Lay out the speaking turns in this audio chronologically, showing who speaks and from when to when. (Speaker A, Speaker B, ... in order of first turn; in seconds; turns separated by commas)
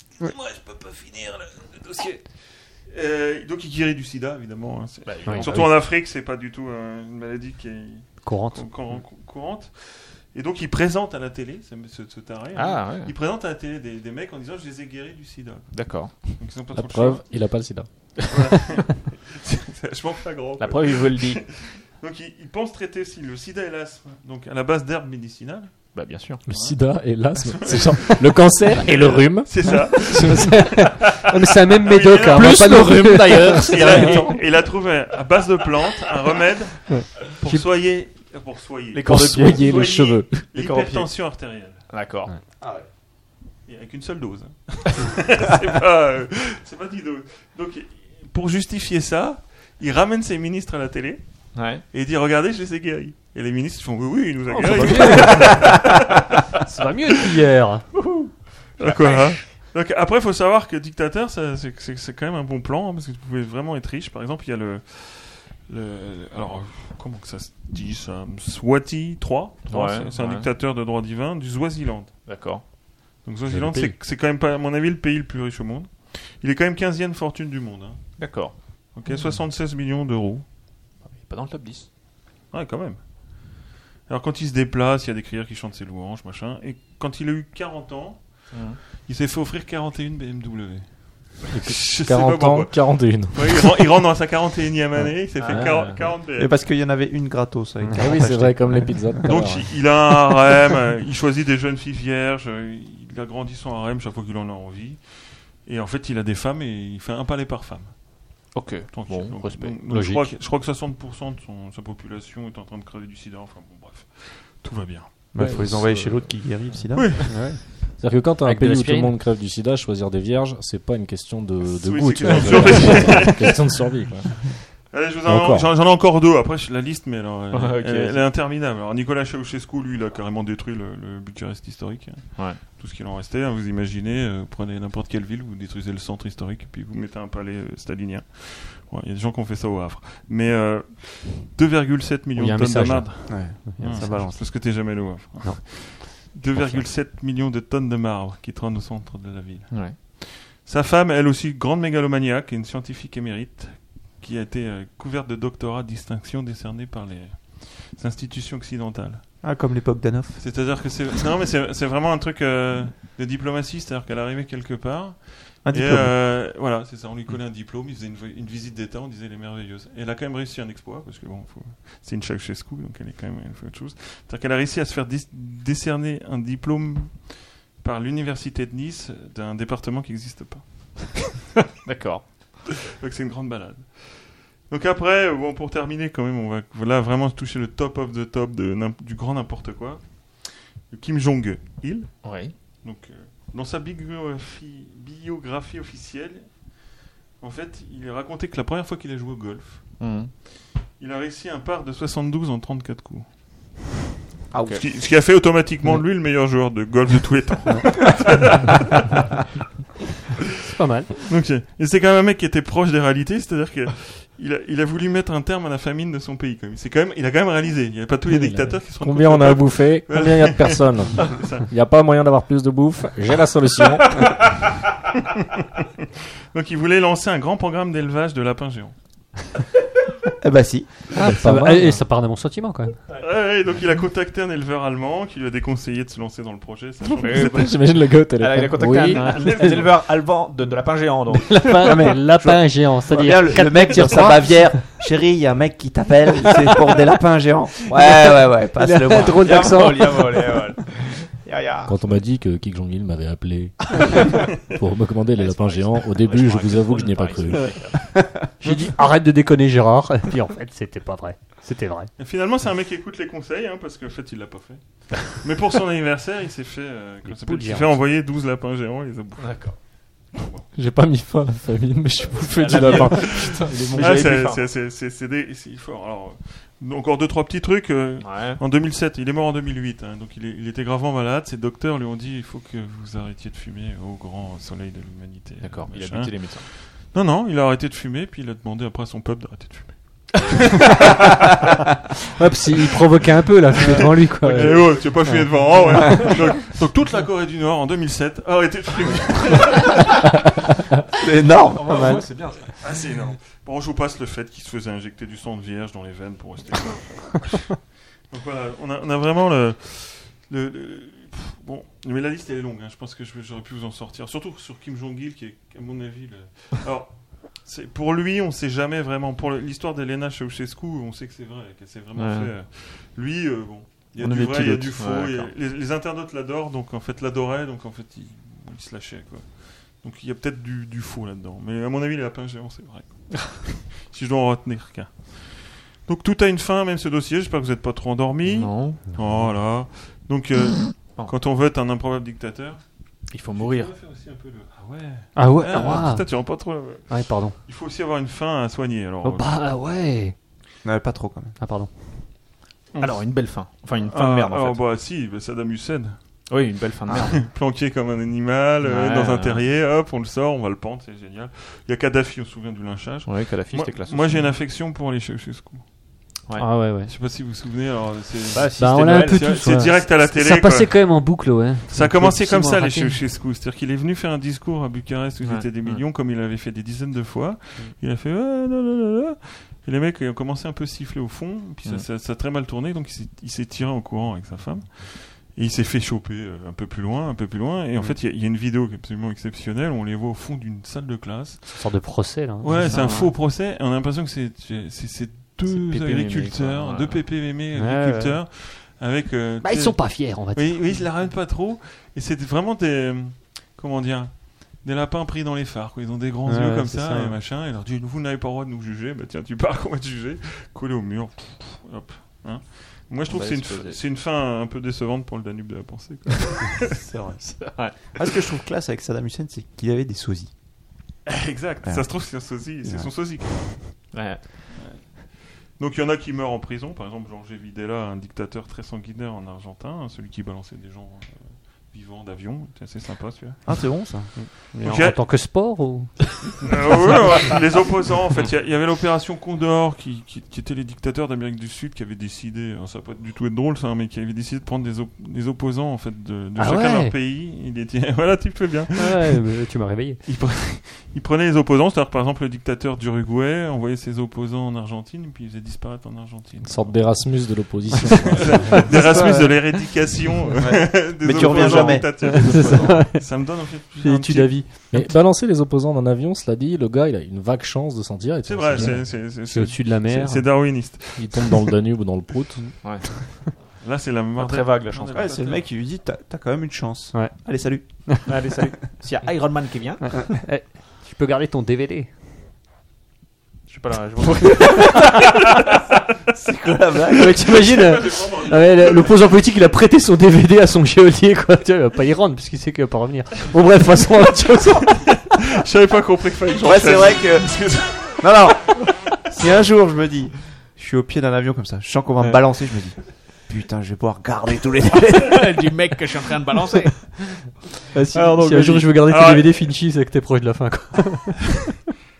Speaker A: 0.2-17.6, Speaker B: 5.0-6.0, Speaker C: 5.2-5.6, Speaker C: 8.2-8.7, Speaker B: 12.5-13.1, Speaker B: 15.7-16.3, Speaker D: 16.7-18.6, Speaker A: 18.3-25.9, Speaker B: 20.6-21.4, Speaker B: 25.9-26.4, Speaker D: 26.4-30.9, Speaker A: 26.5-30.5, Speaker C: 30.0-34.4, Speaker A: 31.7-32.9, Speaker D: 32.2-34.5, Speaker A: 33.5-41.8, Speaker C: 37.0-37.7, Speaker B: 38.9-42.3, Speaker D: 39.0-40.5, Speaker A: 43.6-55.9, Speaker B: 51.5-51.8, Speaker C: 54.5-55.8, Speaker B: 54.9-55.3, Speaker C: 56.6-57.8, Speaker B: 58.0-58.3, Speaker A: 58.8-72.2, Speaker B: 69.7-70.5, Speaker B: 72.2-72.6, Speaker A: 73.2-80.5, Speaker C: 73.5-73.9, Speaker B: 78.2-78.5, Speaker B: 81.0-81.9, Speaker A: 82.5-96.5, Speaker B: 88.5-88.8, Speaker D: 91.5-93.9, Speaker B: 95.4-96.1, Speaker D: 95.5-95.8, Speaker E: 96.3-99.6, Speaker D: 97.9-99.9, Speaker A: 99.2-115.4, Speaker B: 108.5-109.8, Speaker C: 109.8-110.3, Speaker E: 115.3-117.3, Speaker D: 115.4-116.1, Speaker B: 115.5-116.2, Speaker A: 116.9-117.5, Speaker C: 117.3-119.2, Speaker D: 117.9-124.6, Speaker A: 121.6-159.3, Speaker C: 122.2-123.1, Speaker D: 125.2-125.7, Speaker B: 127.5-128.3, Speaker C: 142.3-146.9, Speaker E: 143.3-144.5, Speaker B: 149.7-150.0, Speaker E: 159.4-160.4, Speaker A: 160.3-181.2, Speaker E: 165.6-166.2, Speaker B: 181.8-182.6, Speaker A: 183.0-196.8, Speaker B: 192.2-192.5, Speaker A: 197.4-200.1, Speaker B: 200.0-200.3, Speaker A: 200.9-203.7, Speaker E: 204.5-204.8, Speaker A: 204.7-209.1, Speaker C: 210.6-211.2, Speaker A: 211.3-221.7, Speaker C: 218.4-218.7, Speaker D: 218.8-224.4, Speaker A: 226.5-229.4, Speaker E: 230.4-231.0, Speaker C: 231.2-232.9, Speaker D: 231.2-232.0, Speaker A: 233.2-238.0, Speaker B: 237.2-241.9, Speaker D: 237.2-239.8, Speaker C: 239.1-239.8, Speaker C: 241.5-244.8, Speaker E: 241.8-250.3, Speaker C: 248.0-250.3, Speaker B: 249.4-251.4, Speaker D: 251.8-257.8, Speaker B: 255.3-258.1, Speaker C: 258.6-262.1, Speaker A: 262.2-270.6, Speaker C: 267.2-268.0, Speaker B: 269.4-269.8, Speaker D: 270.7-274.4, Speaker B: 272.4-274.7, Speaker A: 272.7-291.2, Speaker B: 278.2-278.6, Speaker B: 285.6-286.7, Speaker C: 292.4-296.3, Speaker A: 293.7-300.1, Speaker E: 301.2-302.2, Speaker B: 301.7-302.7, Speaker C: 301.9-302.2, Speaker A: 302.8-349.7, Speaker B: 322.1-322.5, Speaker B: 324.2-325.5, Speaker B: 338.4-339.1, Speaker C: 339.1-339.5, Speaker B: 341.1-341.3, Speaker B: 343.3-343.9, Speaker C: 345.3-347.6, Speaker C: 349.2-350.3, Speaker E: 350.8-351.6, Speaker C: 351.6-351.9, Speaker A: 352.9-356.6, Speaker B: 353.0-354.9, Speaker B: 356.5-357.4, Speaker A: 357.2-366.2, Speaker B: 358.8-359.6, Speaker B: 363.2-364.6, Speaker B: 366.5-366.7, Speaker C: 366.6-367.1, Speaker A: 367.0-417.0, Speaker B: 368.5-370.1, Speaker C: 368.8-373.2, Speaker B: 375.4-376.1, Speaker C: 391.7-393.3, Speaker B: 392.7-393.1, Speaker B: 395.6-397.3, Speaker C: 397.7-398.4, Speaker C: 399.6-401.0, Speaker E: 406.5-407.3, Speaker C: 406.5-407.2, Speaker B: 413.3-414.0, Speaker E: 417.0-420.5, Speaker B: 417.6-418.2, Speaker A: 421.2-424.2, Speaker E: 421.8-423.1, Speaker B: 424.1-424.4, Speaker A: 424.7-433.9, Speaker E: 433.6-434.3, Speaker C: 434.4-436.4, Speaker A: 434.8-435.2, Speaker A: 436.6-449.4, Speaker C: 446.6-447.1, Speaker C: 448.9-450.2, Speaker A: 450.2-464.7, Speaker D: 456.6-459.0, Speaker E: 458.9-459.6, Speaker C: 458.9-459.6, Speaker E: 460.6-463.0, Speaker C: 461.4-465.1, Speaker D: 464.9-469.1, Speaker A: 468.4-471.7, Speaker C: 468.7-470.5, Speaker D: 471.1-472.8, Speaker A: 473.8-475.6, Speaker B: 474.4-475.3, Speaker E: 475.1-478.3, Speaker B: 478.3-480.2, Speaker C: 480.0-482.1, Speaker A: 483.7-485.0, Speaker C: 484.3-485.2, Speaker E: 486.3-487.7, Speaker C: 487.2-495.2, Speaker A: 487.5-489.2, Speaker A: 495.4-498.2, Speaker E: 496.6-505.7, Speaker B: 505.1-507.1, Speaker C: 507.9-511.7, Speaker B: 508.1-508.9, Speaker A: 509.0-509.7